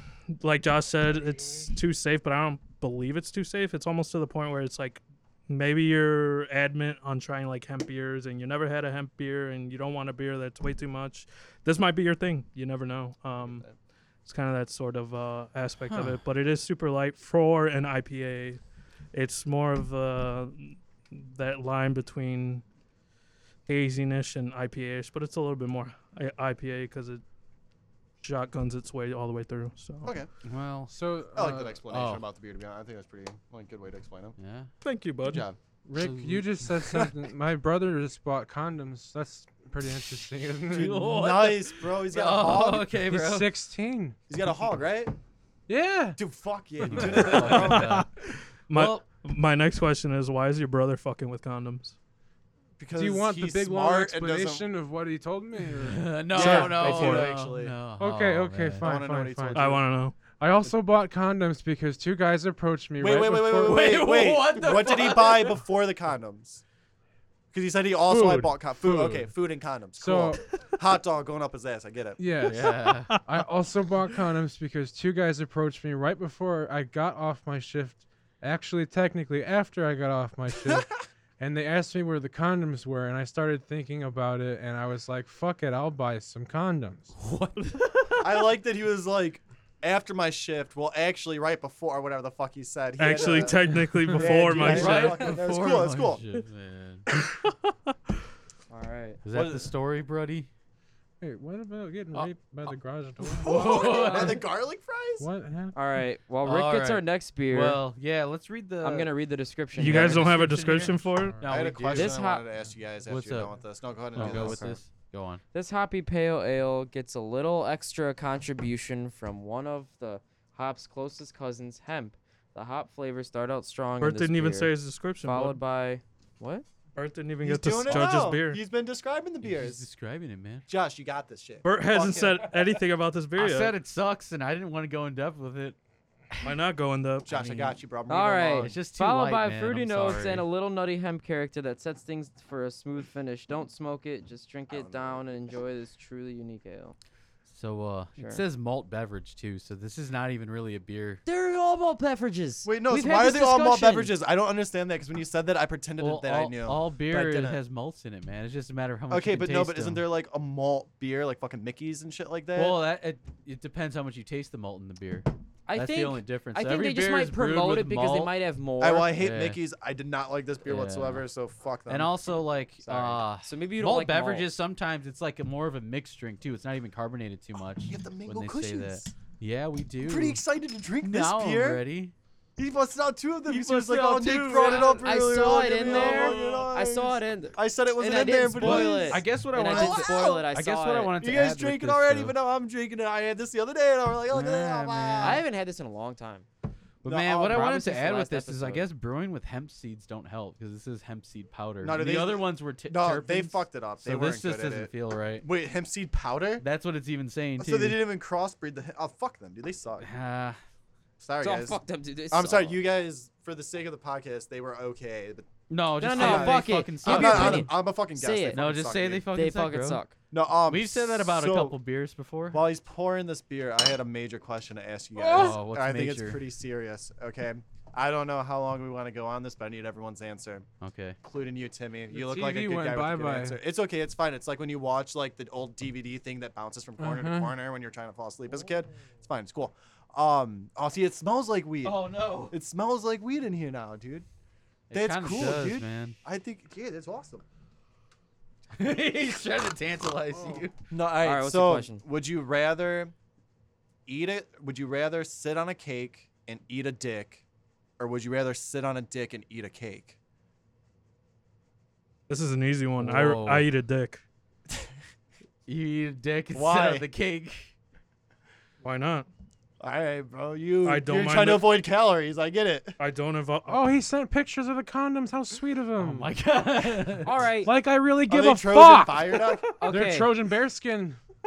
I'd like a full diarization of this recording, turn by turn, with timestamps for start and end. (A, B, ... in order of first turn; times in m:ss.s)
0:00.4-0:13.6 A
0:13.4-0:13.8 B
0:14.2-0:18.6 A
0:15.8-0:16.2 C
0:19.1-0:22.6 A
0:23.6-0:27.2 A
0:28.2-0:30.1 A
0:30.0-0:30.3 B
0:30.4-0:30.9 C
0:30.9-0:31.8 D
0:31.3-0:34.4 B
0:31.9-0:32.2 C
0:34.4-0:34.7 C
0:34.8-0:35.5 A
0:35.2-0:35.6 B
0:35.8-0:40.9 D
0:35.9-0:36.5 C
0:36.8-0:37.1 B
0:40.7-0:43.5 C
0:40.7-0:42.9 B
0:43.0-0:44.2 D
0:44.3-0:45.1 B
0:45.7-0:46.2 D
0:46.2-0:48.0 B
0:46.9-0:48.1 C
0:47.3-0:48.1 A
0:48.7-0:52.0 A
0:48.7-0:49.0 C
0:52.8-0:54.7 B
0:53.0-0:56.2 D
0:55.8-0:58.9 C
0:56.3-0:57.4 A
0:56.3-0:57.8 B
0:58.0-0:59.8 D
0:58.8-0:59.8 B
0:59.6-1:00.2 A
1:00.3-1:03.9 D
1:03.0-1:06.6 B
1:03.6-1:05.6 C
1:07.5-1:12.2 B
1:08.1-1:09.3 D
1:10.0-1:10.4 D
1:12.2-1:27.1 D
1:12.4-1:13.2 C
1:27.2-1:28.1 C
1:28.2-1:36.2 B
1:33.0-1:35.3 A
1:33.7-1:34.2 D
1:34.5-1:37.0 C
1:37.2-1:37.9 A
1:38.7-1:39.2 E
1:39.2-1:40.5 C
1:39.3-1:39.7 B
1:41.2-1:43.6 D
1:42.1-1:42.7 C
1:43.2-1:44.4 C
1:43.4-1:45.3 B
1:45.2-1:45.8 D
1:45.7-1:47.8 E
1:46.4-1:49.1 C
1:48.8-1:50.2 E
1:49.8-1:51.4 A
1:49.8-1:52.2 C
1:51.4-1:54.7 B
1:51.9-1:52.4 E
1:53.1-1:53.5 C
1:54.1-1:55.4 C
1:54.2-1:54.8 E
1:55.5-2:04.7 E
2:04.0-2:05.6 A
2:05.2-2:06.6 E
2:07.0-2:08.6 A
2:07.4-2:09.9 B
2:09.4-2:10.7 C
2:10.7-2:12.5 B
2:11.6-2:13.7 A
2:13.4-2:15.8 C
2:16.3-2:16.6 C
2:16.4-2:17.3 A
2:17.3-2:18.8 B
2:18.1-2:27.0 E
2:18.6-2:20.4 C
2:24.7-2:25.2 B
2:27.5-2:31.2 C
2:28.2-2:28.4 E
2:31.3-2:34.1 E
2:32.6-2:37.6 B
2:36.0-2:40.0 C
2:39.1-2:42.8 B
2:42.6-2:48.3 C
2:45.7-2:49.1 E
2:48.8-2:52.2 B
2:49.1-2:49.6 C
2:50.6-2:51.3 C
2:51.9-3:00.4 C
2:52.8-2:53.2 B
2:53.4-2:54.5 E
2:57.9-2:59.2 B
3:00.0-3:01.8 B
3:01.0-3:02.1 C
3:02.6-3:10.4 B
3:03.4-3:05.1 C
3:04.5-3:11.2 E
3:05.8-3:06.6 C
3:08.6-3:12.4 C
3:11.2-3:15.4 B
3:14.3-3:15.4 C
3:15.2-3:16.4 E
3:17.0-3:17.8 B
3:17.0-3:25.4 C
3:17.5-3:18.9 E
3:21.8-3:26.6 B
3:26.6-3:28.0 C
3:27.6-3:30.1 B
3:30.0-3:30.6 C
3:31.2-3:35.5 B
3:31.4-3:32.8 E
3:35.7-3:37.7 C
3:36.0-3:38.6 E
3:36.1-3:39.3 B
3:38.5-3:40.0 C
3:39.3-3:40.1 E
3:40.3-3:41.8 B
3:40.7-3:42.6 C
3:42.5-3:50.7 B
3:45.2-3:45.6 D
3:45.3-3:46.4 C
3:50.8-3:51.2 C
3:51.2-4:04.3 B
3:52.1-3:53.6 D
3:57.0-3:57.5 D
4:01.8-4:02.6 C
4:04.9-4:06.2 C
4:04.9-4:07.4 B
4:08.7-4:10.8 C
4:10.9-4:13.1 B
4:11.2-4:12.0 E
4:14.1-4:17.4 B
4:18.0-4:20.2 B
4:22.3-4:24.2 A
4:23.0-4:23.7 C
4:25.6-4:27.7 C
4:26.5-4:27.1 B
4:28.8-4:29.3 A
4:29.8-4:33.0 B
4:30.8-4:31.8 A
4:33.0-4:33.8 A
4:33.7-4:36.3 D
4:36.0-4:37.4 C
4:37.2-4:37.7 E
4:37.6-4:41.2 D
4:38.3-4:39.7 B
4:39.8-4:40.3 E